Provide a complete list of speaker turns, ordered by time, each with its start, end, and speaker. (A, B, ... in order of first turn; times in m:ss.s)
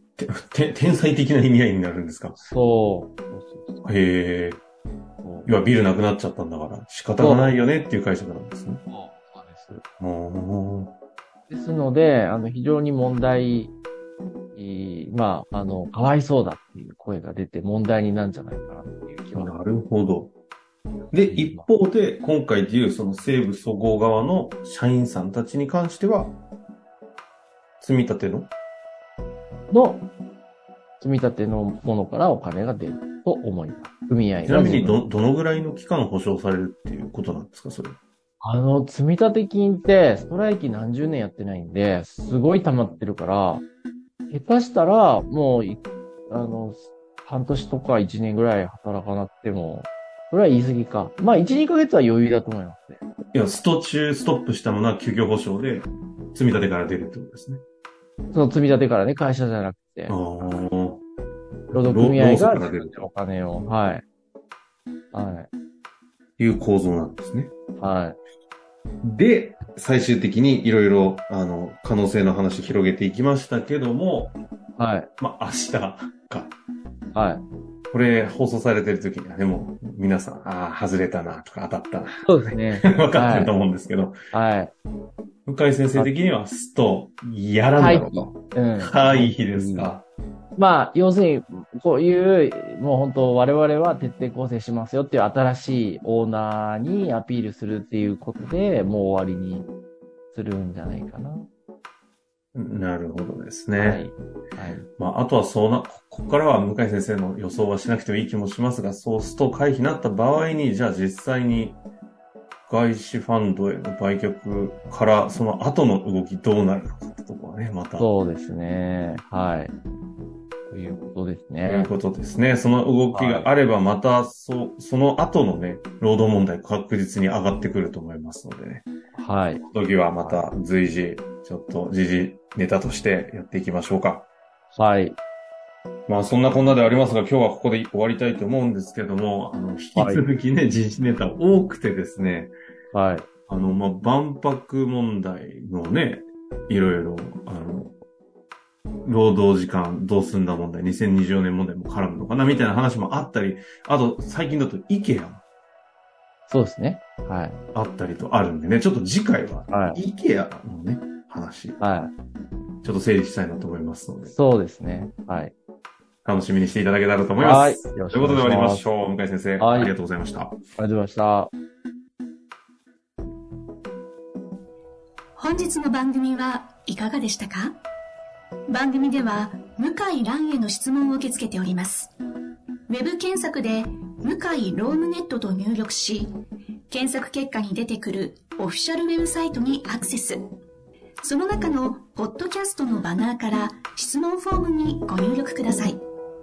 0:00.2-0:02.4 A
0:02.4-0:03.8 B
0:03.8-0:04.6 A
0:05.2-0:05.5 B
0:05.4-0:08.8 A
0:07.2-0:07.7 B
0:08.9-0:09.8 B
0:10.0-0:10.9 A
0:11.5-0:13.7 B
0:14.5-0:19.5 B
0:19.3-0:20.3 A
0:21.1-0:26.4 A
0:21.2-0:21.7 B
0:27.8-0:28.5 A
0:29.7-0:30.0 B
0:31.0-0:35.0 B
0:34.4-0:38.0 A
0:38.4-0:43.6 B
0:44.3-0:53.0 B
0:53.3-0:57.6 A
0:58.3-1:00.6 B
1:00.1-1:01.0 A
1:01.7-1:03.0 A
1:01.7-1:04.0 B
1:05.1-1:05.5 B
1:06.4-1:07.5 A
1:07.8-1:08.2 B
1:09.0-1:14.4 A
1:14.8-1:15.1 B
1:15.2-1:16.6 A
1:17.1-1:17.4 B
1:17.9-1:24.2 A
1:22.2-1:23.5 B
1:24.3-1:24.7 B
1:25.4-1:30.0 A
1:27.8-1:29.9 B
1:30.6-1:39.7 B
1:40.3-1:41.5 B
1:42.5-1:44.0 A
1:43.8-1:44.9 B
1:45.0-1:51.8 A
1:52.7-1:58.1 A
1:58.0-1:59.7 B
2:00.7-2:01.9 B
2:01.6-2:08.9 A
2:03.1-2:03.5 B
2:09.1-2:09.6 B
2:09.6-2:14.3 A
2:14.7-2:15.2 B
2:16.1-2:22.5 A
2:20.0-2:20.2 B
2:22.9-2:23.3 B
2:23.5-2:27.9 A
2:29.0-2:35.4 A
2:36.5-2:37.6 B
2:37.7-2:41.8 A
2:39.7-2:40.0 B
2:41.8-2:42.1 B
2:42.8-2:44.3 A
2:44.3-2:45.5 B
2:46.2-2:50.6 A
2:47.4-2:48.9 B
2:49.6-2:49.9 B
2:50.8-2:51.5 B
2:55.4-2:57.7 C
2:58.7-3:02.1 C
3:02.9-3:06.3 C
3:06.9-3:10.4 C
3:11.2-3:16.0 C